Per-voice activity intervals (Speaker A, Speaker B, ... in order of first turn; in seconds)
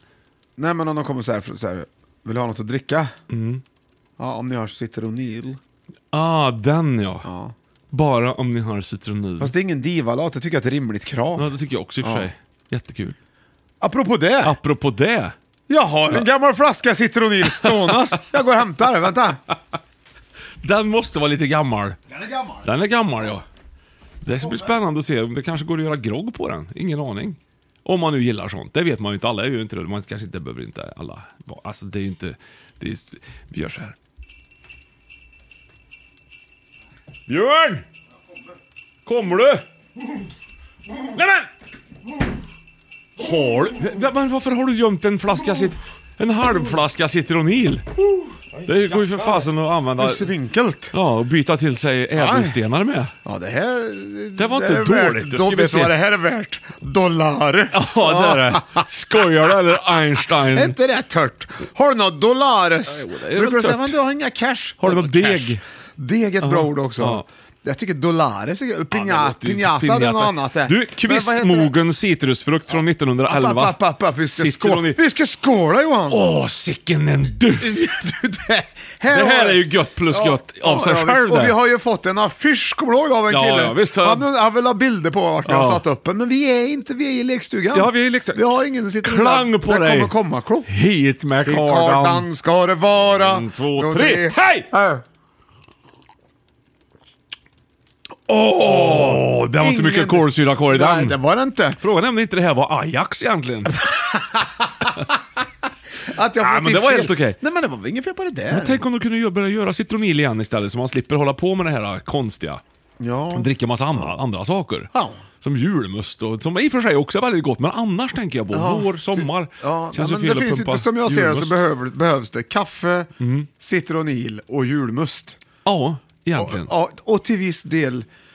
Speaker A: 0.6-3.1, 4.2-5.6, 7.2-7.5, 9.4-12.3, 13.8-14.6, 15.7-19.4, 22.1-22.7, 48.0-50.9, 52.1-52.6, 53.2-58.9, 60.2-71.7, 73.2-76.3, 77.6-90.7, 91.4-95.0, 98.3-101.8, 103.8-105.0, 106.0-108.8, 113.0-114.1, 114.9-115.2, 118.5-125.4, 126.3-128.1
Speaker B: 3.3-3.6, 6.1-7.3, 7.9-9.5, 11.3-13.2, 14.4-15.3, 17.5-18.0, 20.6-22.0, 22.6-23.4, 24.2-34.0, 37.3-37.8, 39.0-39.6, 41.1-41.5, 43.2-47.8, 48.6-50.3, 50.9-53.1, 54.4-55.9, 57.7-60.8, 62.9-63.9, 64.8-65.6, 66.4-67.2, 68.9-73.8, 74.3-75.0, 76.1-78.0, 79.1-81.5, 83.3-84.3, 85.4-85.8, 87.7-88.5, 89.0-90.1, 90.7-92.3, 93.1-94.7, 98.5-101.2, 101.8-103.8, 106.4-107.4, 108.5-112.6, 113.3-114.9, 115.4-121.6, 123.2-123.5, 125.6-126.7